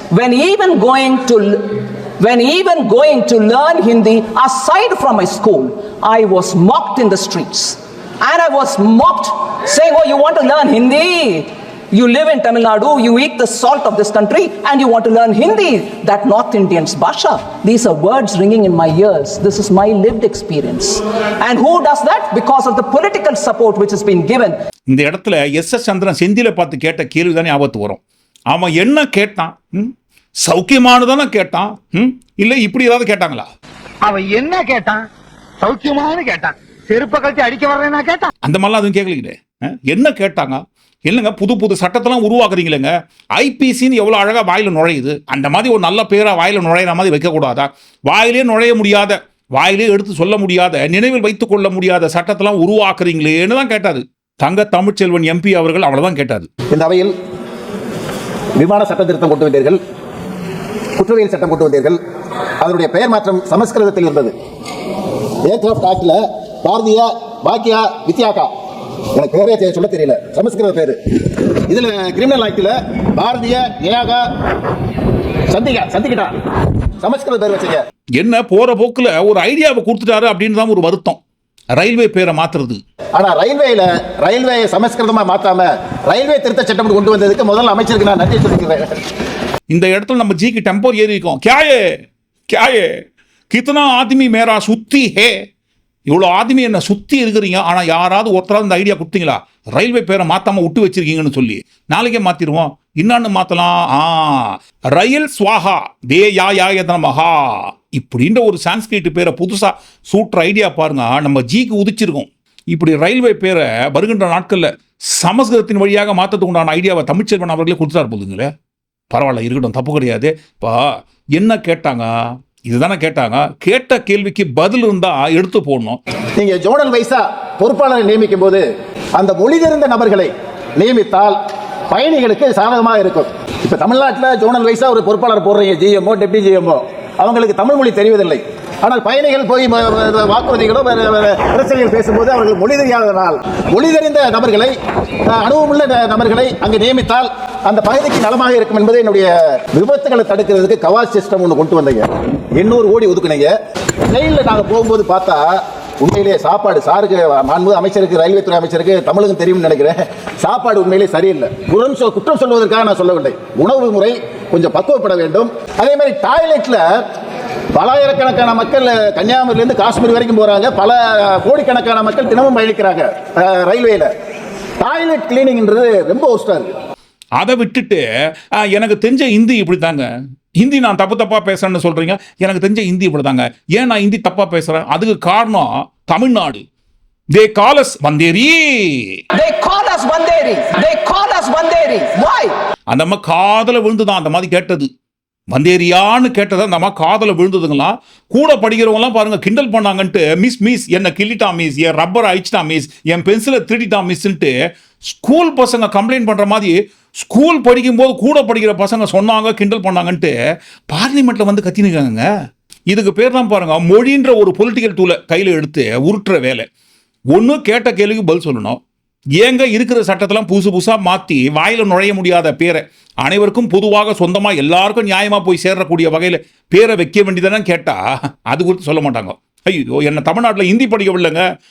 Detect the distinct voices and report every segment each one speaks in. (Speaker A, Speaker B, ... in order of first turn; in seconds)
Speaker A: 0.1-24.6, 189.3-192.5
Speaker B: 24.9-28.0, 28.5-29.9, 30.4-33.5, 38.4-56.5, 78.2-81.2, 81.8-82.8, 89.7-91.8, 92.5-93.0, 93.5-95.3, 96.1-118.5, 119.1-122.1, 122.7-126.0, 177.4-180.1, 180.6-186.6, 187.3-189.2, 192.9-194.9, 195.5-204.5, 205.1-210.3, 210.9-212.2, 212.9-216.7, 217.3-218.8, 219.4-231.4
Speaker C: 34.0-35.0, 35.6-38.3
Speaker D: 56.7-57.1, 58.6-59.8, 61.0-62.0, 62.6-64.3, 65.5-68.5, 69.2-74.2, 75.5-76.3, 77.0-77.8, 83.2-89.0, 126.4-128.7, 129.2-131.4, 131.9-144.7, 145.2-153.5, 154.1-166.9, 167.7-174.1, 174.8-176.7